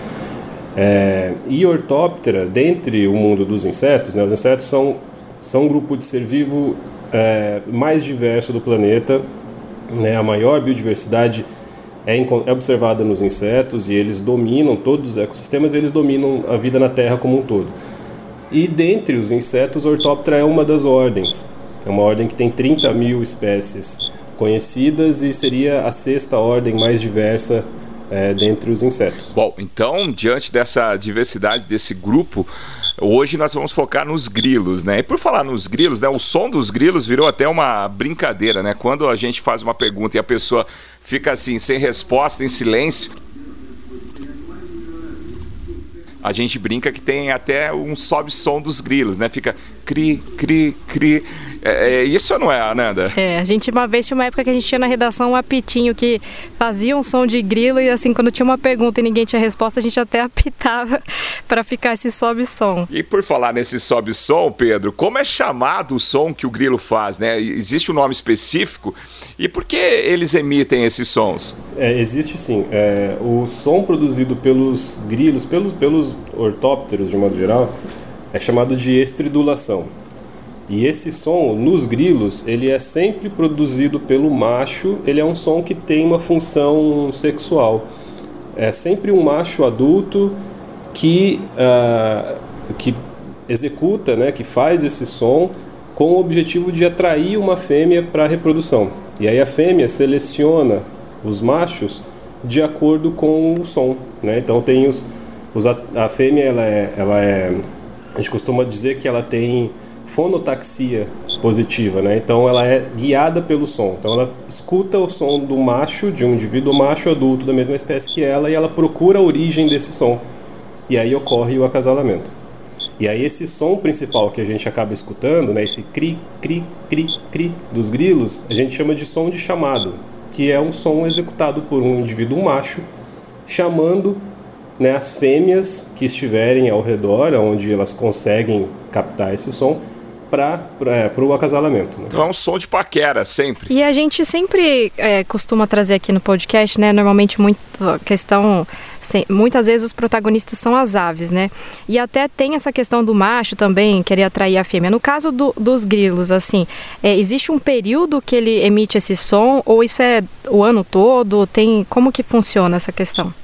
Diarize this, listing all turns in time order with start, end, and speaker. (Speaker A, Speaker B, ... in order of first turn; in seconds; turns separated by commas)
Speaker A: 0.8-9.2, Speaker A: 9.9-11.5, Speaker A: 12.1-17.7, Speaker A: 18.5-29.3, Speaker B: 29.3-43.2, Speaker B: 46.2-53.2, Speaker C: 53.1-62.9, Speaker B: 62.9-71.6, Speaker A: 71.8-77.7, Speaker A: 78.3-79.9, Speaker A: 80.7-87.9, Speaker A: 88.6-90.4, Speaker A: 90.9-107.6, Speaker A: 108.2-120.2, Speaker A: 120.9-122.3, Speaker A: 123.0-132.8, Speaker A: 133.5-134.2, Speaker A: 134.8-142.2, Speaker B: 142.1-143.7, Speaker C: 143.7-163.3